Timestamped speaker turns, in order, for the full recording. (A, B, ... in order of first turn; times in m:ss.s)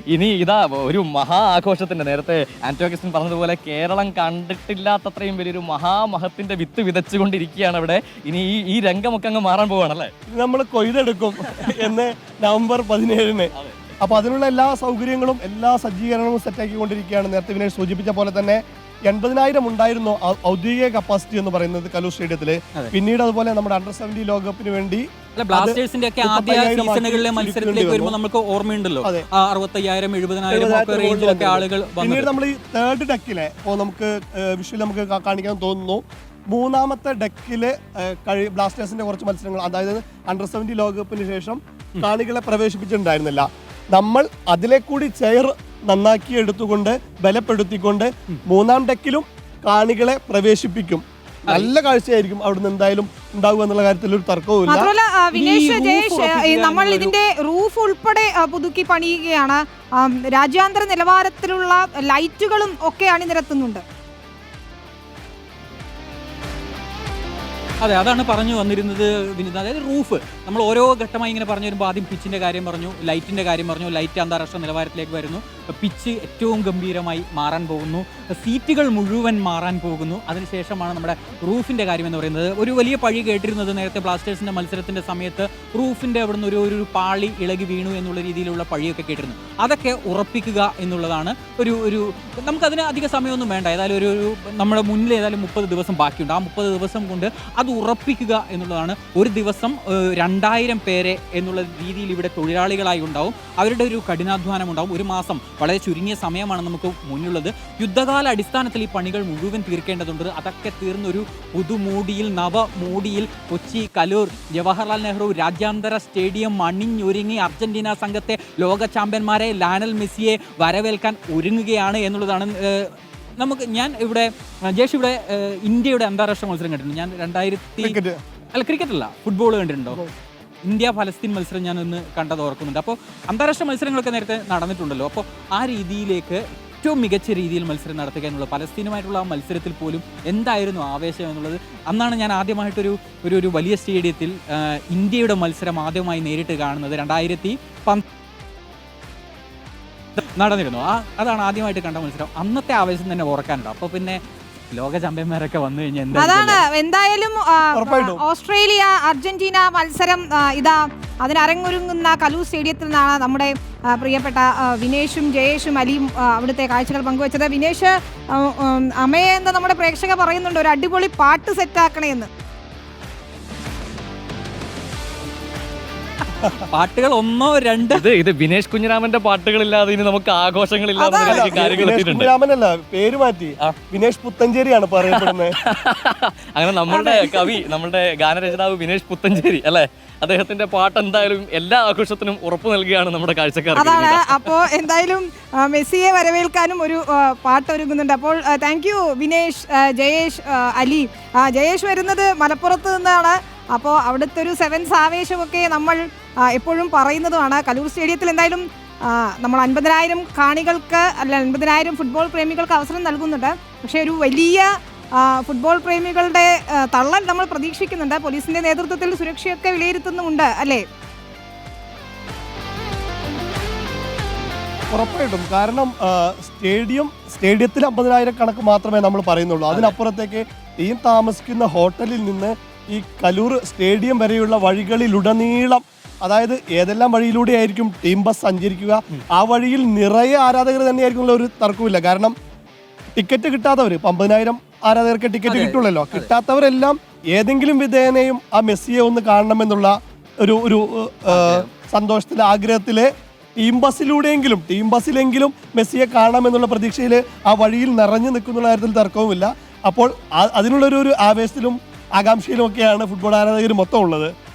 0:00.1-0:10.1 A
0:10.3-0:28.1 B
0:13.6-0:14.0 A
0:25.4-0:32.3 C
0:30.5-0:54.9 B
0:51.5-0:51.7 C
0:54.7-1:03.8 D
0:55.3-0:57.1 C
1:07.8-2:08.0 C
2:07.8-2:08.2 B
2:08.5-2:10.0 C
2:10.6-2:28.0 C
2:30.4-2:36.6 C
2:36.1-2:52.3 D
2:37.7-2:38.2 B
2:56.7-2:58.0 C
2:57.9-3:02.3 A
3:01.0-3:01.5 D
3:01.2-3:05.6 B
3:05.1-3:14.4 A
3:06.9-3:07.6 D
3:13.8-3:40.8 D
3:44.9-4:02.3 B
3:49.7-3:50.0 C
4:03.2-4:24.3 B
4:05.4-4:06.3 C
4:11.3-4:11.7 C